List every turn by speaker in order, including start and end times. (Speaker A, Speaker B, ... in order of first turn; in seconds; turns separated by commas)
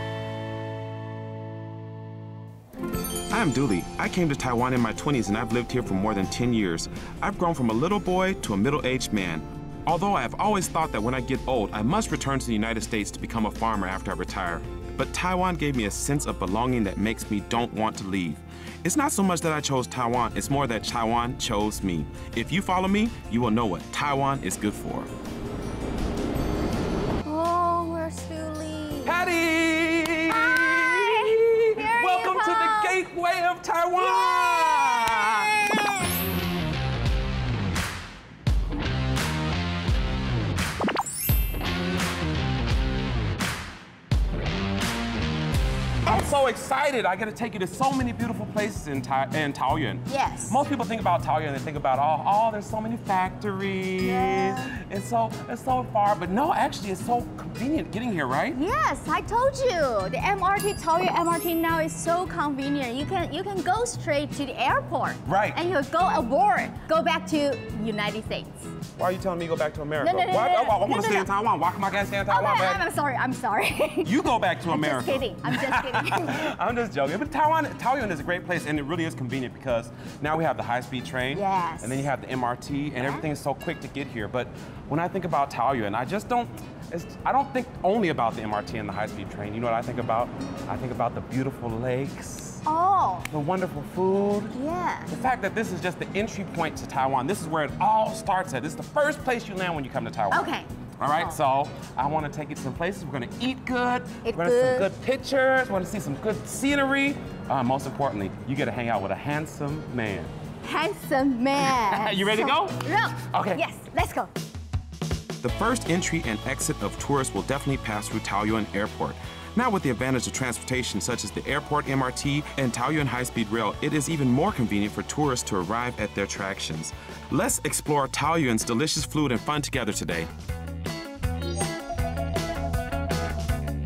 Speaker A: 3.3-25.1, Speaker B: 27.2-29.2, Speaker A: 29.1-35.5, Speaker B: 30.3-33.0, Speaker B: 34.0-36.2, Speaker B: 46.0-46.4, Speaker A: 46.0-58.6, Speaker B: 50.1-50.6, Speaker B: 54.0-54.7, Speaker B: 58.5-68.7, Speaker A: 65.2-65.6, Speaker A: 69.0-72.8, Speaker B: 70.0-71.3, Speaker B: 72.3-76.5, Speaker A: 74.0-92.7, Speaker B: 81.3-82.0, Speaker B: 83.0-83.2, Speaker B: 92.7-93.3, Speaker A: 93.3-94.6, Speaker B: 94.5-95.2, Speaker A: 95.1-110.3, Speaker B: 100.3-101.4, Speaker B: 104.2-104.9, Speaker B: 110.6-114.3, Speaker A: 111.6-113.6, Speaker A: 115.4-130.3